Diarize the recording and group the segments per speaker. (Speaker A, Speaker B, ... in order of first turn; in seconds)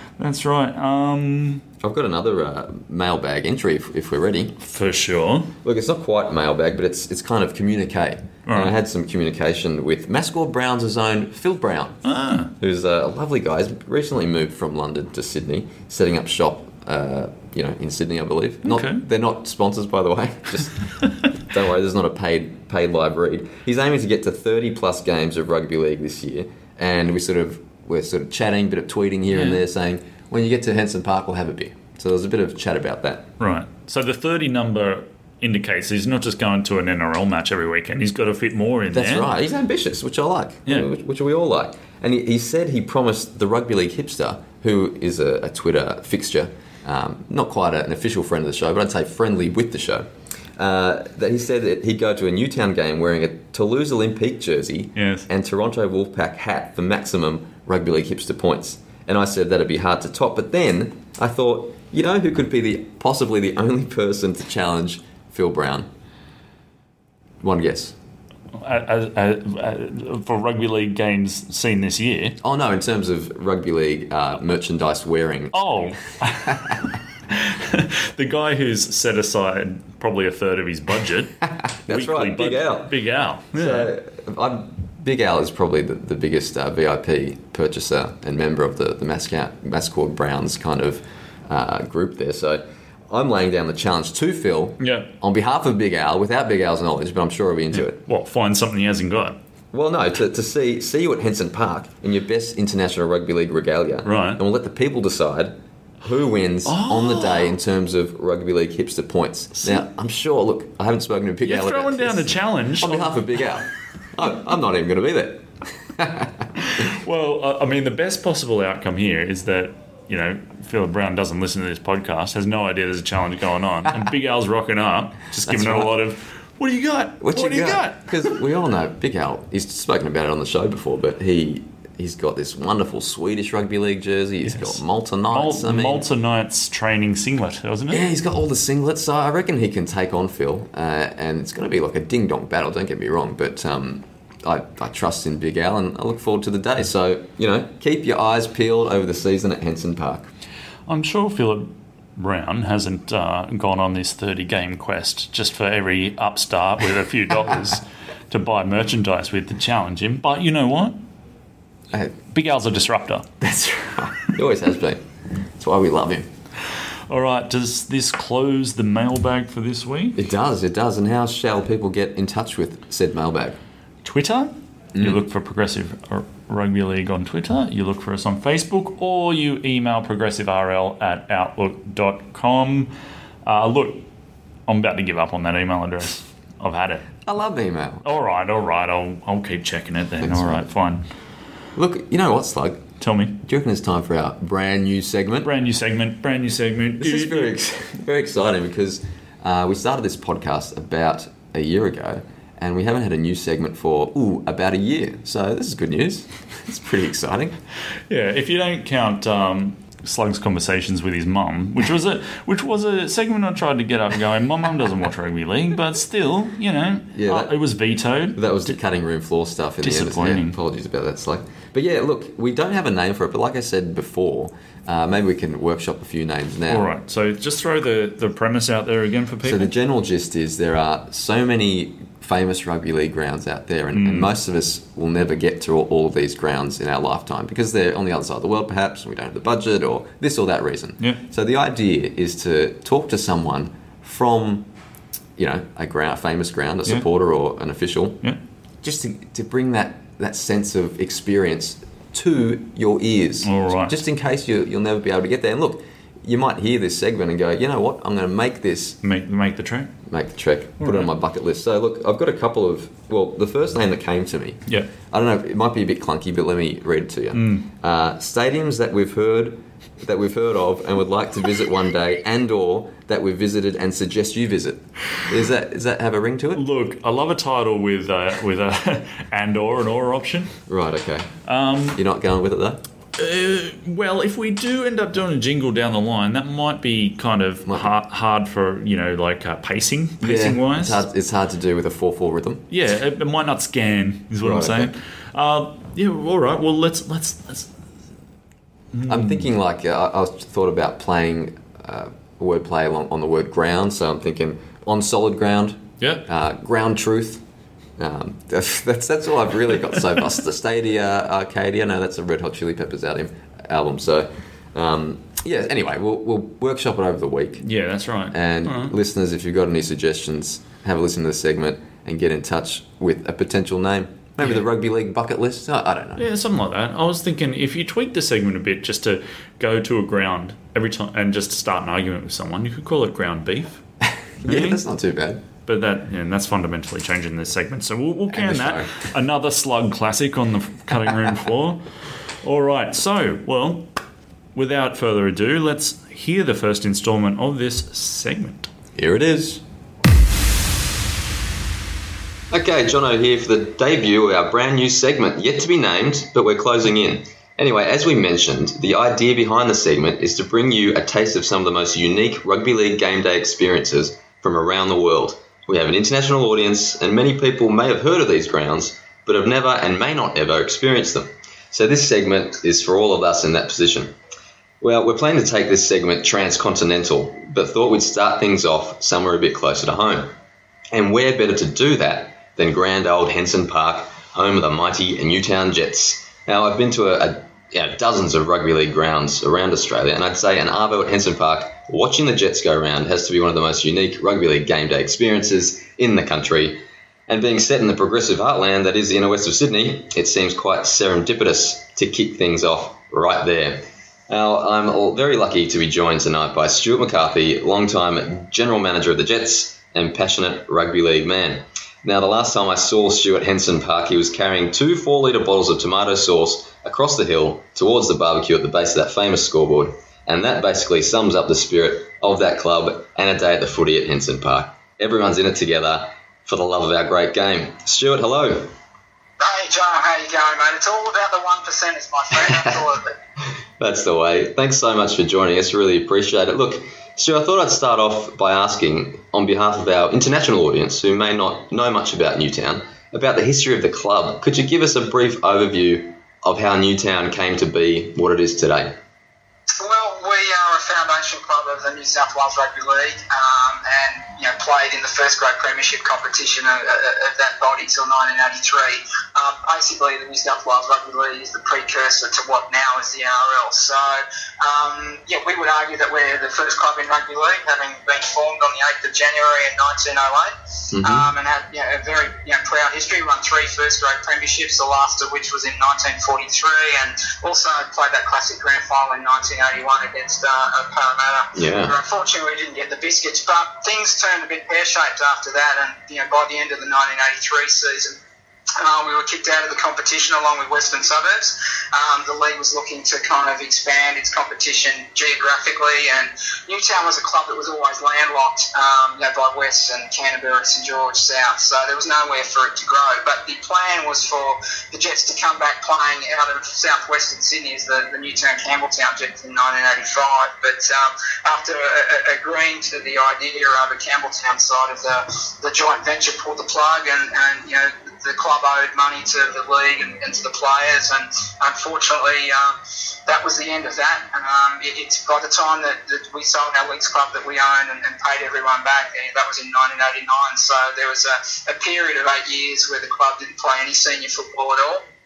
Speaker A: 0.2-1.6, 4.6-5.5, 8.5-8.7, 12.0-12.5, 18.6-19.0, 29.3-29.6, 33.4-39.3, 55.0-55.3, 68.5-72.4, 75.5-83.9, 94.8-95.1, 97.7-99.4, 104.0-104.4, 106.7-107.5, 109.6-109.8, 111.4-113.2, 116.6-128.4, 134.4-134.8, 135.3-138.1, 150.9-161.1, 162.3-163.3, 167.1-170.2, 174.1-182.9, 183.4-184.1, 184.7-187.1, 188.0-191.1, 193.0-193.4, 195.4-197.6, 208.1-218.8, 219.8-220.6, 226.7-229.7, 233.9-234.3, 253.4-254.0, 259.0-259.9, 260.8-261.1, 267.3-267.7, 276.6-280.6, 281.4-282.0, 283.2-291.0, 292.7-297.7, 298.9-299.5, 306.0-306.3, 317.6-318.9, 326.2-333.8, 334.4-334.8, 335.7-343.9, 344.6-348.7
Speaker B: 1.8-4.6, 5.6-20.8, 21.3-33.3, 38.9-65.9, 67.4-68.0, 72.4-76.8, 81.5-83.0, 83.5-98.0, 99.7-116.8, 125.4-125.9, 127.2-136.1, 137.9-150.3, 163.4-165.1, 165.6-166.3, 170.2-173.6, 174.9-175.2, 187.2-188.1, 190.2-190.7, 191.8-192.9, 193.4-195.5, 197.0-207.6, 217.1-217.6, 218.3-226.9, 229.4-244.7, 245.4-248.2, 248.8-259.0, 260.1-276.6, 280.7-281.3, 281.9-282.8, 287.6-287.9, 290.2-292.7, 294.4-294.9, 299.1-307.4, 308.0-317.7, 318.3-326.3, 334.0-335.4, 338.3-339.1, 348.9-349.6, 352.5-374.1, 374.8-380.3, 380.9-428.7, 432.3-432.8, 433.8-449.0, 470.9-471.3, 481.5-481.9
Speaker C: 429.4-433.2, 449.8-488.2, 488.8-535.0